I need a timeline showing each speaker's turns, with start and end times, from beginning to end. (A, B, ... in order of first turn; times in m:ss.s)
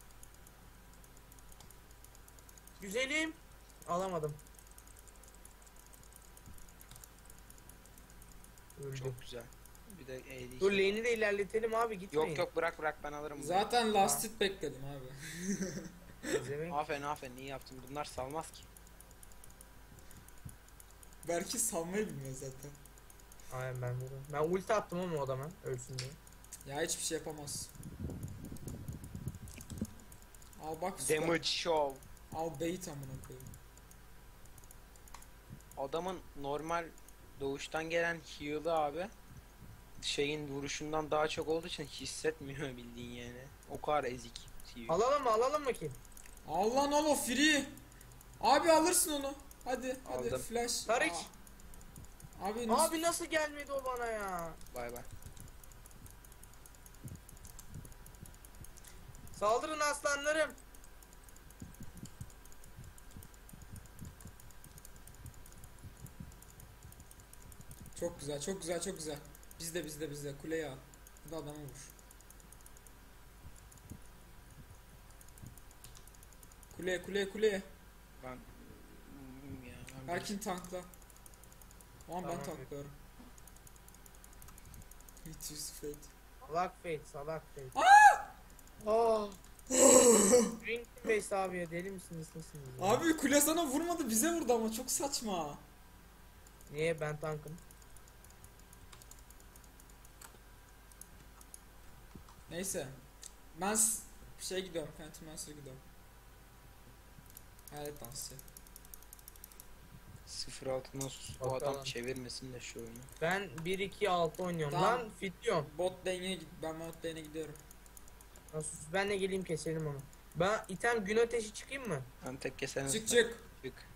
0:02.8-0:04.4 A
0:08.8-0:09.2 A
0:08.9-0:11.0 B
0:10.6-0:12.4 A
0:12.1-0:13.7 B
0:13.3-0:16.4 C
0:16.2-0:16.8 A
0:16.7-0:18.7 B
0:21.2-0:22.8 C
0:23.5-0:26.2 A
0:26.6-0:27.7 C
0:30.6-0:31.4 C
0:31.0-0:32.0 B
0:32.3-0:33.5 C
0:35.8-0:39.1 B
0:40.0-0:45.0 B
0:44.9-0:46.0 A
0:46.4-0:47.8 C
0:48.4-0:51.3 C
0:50.1-0:50.4 B
0:50.9-0:51.3 A
0:52.4-0:53.0 C
0:52.7-0:54.6 A
0:54.7-0:55.0 B
0:59.3-1:00.6 A
1:07.9-1:11.9 C
1:16.7-1:17.7 C
1:18.2-1:20.3 B
1:20.0-1:20.9 C
1:22.1-1:22.9 C
1:22.2-1:22.6 A
1:25.2-1:26.1 C
1:26.4-1:27.7 A
1:27.7-1:28.3 C
1:28.8-1:29.4 A
1:29.7-1:30.6 C
1:30.6-1:33.0 A
1:32.8-1:35.6 C
1:36.7-1:37.6 A
1:42.5-1:43.0 C
1:43.5-1:45.8 C
1:47.7-1:48.4 C
1:50.2-1:53.1 B
1:51.4-1:51.9 A
1:53.2-1:55.7 A
1:54.7-1:55.1 C
1:55.6-1:57.6 C
1:58.5-2:02.1 A
2:02.2-2:03.8 B
2:02.8-2:03.4 C